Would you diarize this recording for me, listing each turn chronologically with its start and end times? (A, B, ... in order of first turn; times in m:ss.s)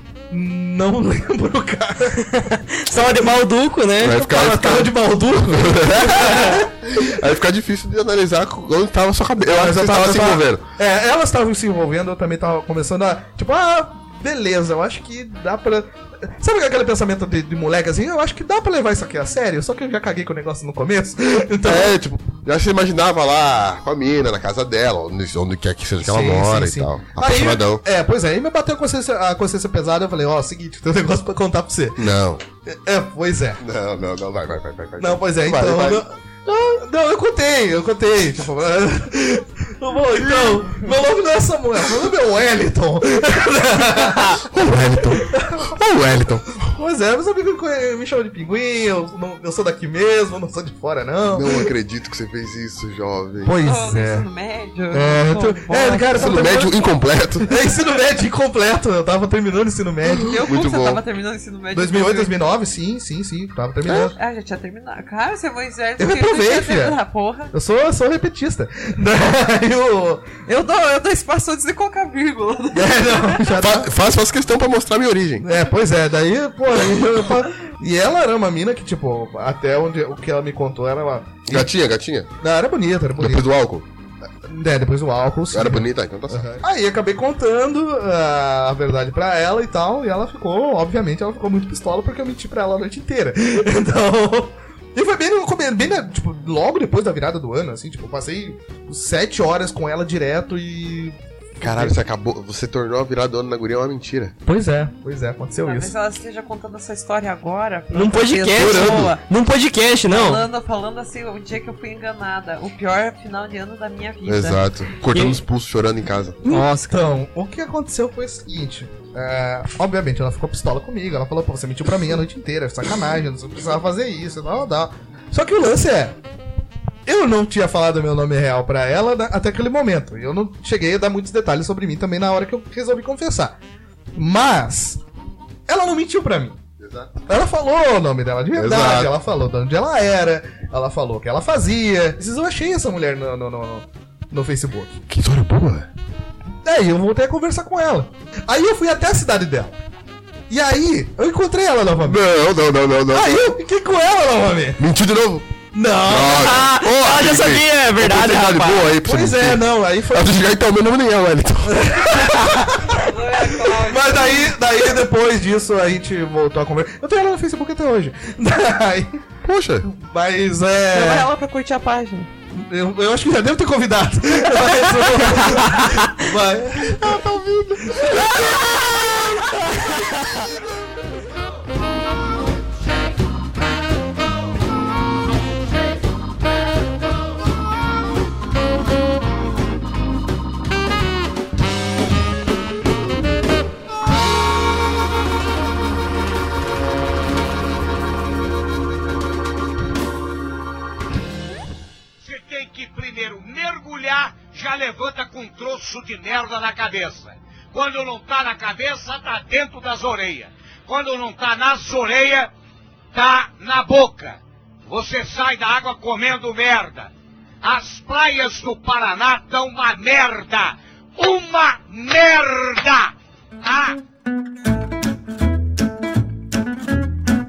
0:00.3-0:02.3 A
0:02.2-0:04.2 B
0:04.0-0:10.6 C
0:04.1-0:07.1 A
0:09.4-0:22.0 A
0:21.6-0:27.8 C
0:26.0-0:32.1 A
0:32.0-0:32.4 C
0:32.6-0:33.6 A
0:33.6-0:36.0 C
0:35.0-0:44.4 A
0:44.4-0:46.6 C
0:45.2-0:45.7 A
0:46.6-0:51.7 A
0:51.3-0:53.6 C
0:53.4-0:54.3 A
0:53.6-0:56.3 D
0:54.9-0:56.7 A
0:56.2-0:57.5 C
0:57.4-1:00.4 A
1:00.2-1:02.3 D
1:00.4-1:01.0 C
1:01.7-1:04.2 A
1:04.2-1:07.5 D
1:06.0-1:07.0 A
1:07.5-1:10.3 A
1:10.5-1:13.4 D
1:12.7-1:13.9 A
1:13.5-1:15.4 C
1:15.4-1:21.7 A
1:21.5-1:22.3 C
1:22.4-1:23.5 A
1:23.2-1:23.9 C
1:24.4-1:42.0 A
1:25.5-1:26.6 C
1:41.6-1:44.4 C
1:44.5-1:45.9 A
1:45.6-1:49.2 D
1:47.9-1:50.4 B
1:48.6-1:49.1 C
1:50.1-1:54.6 D
1:54.2-1:56.4 C
1:55.1-1:55.4 B
1:56.4-2:06.2 A
1:56.5-1:57.0 B
2:07.1-2:13.6 A
2:14.2-2:15.0 A
2:15.7-2:16.6 A
2:16.8-2:17.1 C
2:17.3-2:25.0 A
2:18.6-2:19.1 C
2:25.1-2:25.9 C
2:26.6-2:29.8 A
2:30.5-2:32.2 A
2:32.0-2:33.4 C
2:33.1-2:34.8 A
2:34.8-2:35.5 C
2:35.7-2:36.5 A
2:36.1-2:41.9 C
2:36.3-2:38.9 B
2:39.0-2:40.4 A
2:41.6-2:42.9 A
2:42.8-2:44.4 D
2:43.5-2:49.2 A
2:49.4-2:49.9 C
2:49.8-2:51.3 A
2:50.9-2:52.3 D
2:52.5-2:57.2 A
2:55.4-2:55.9 B
2:56.8-2:58.8 C
2:57.8-2:58.5 A
3:22.2-3:32.5 E
3:33.1-3:37.1 E
3:37.6-3:44.0 E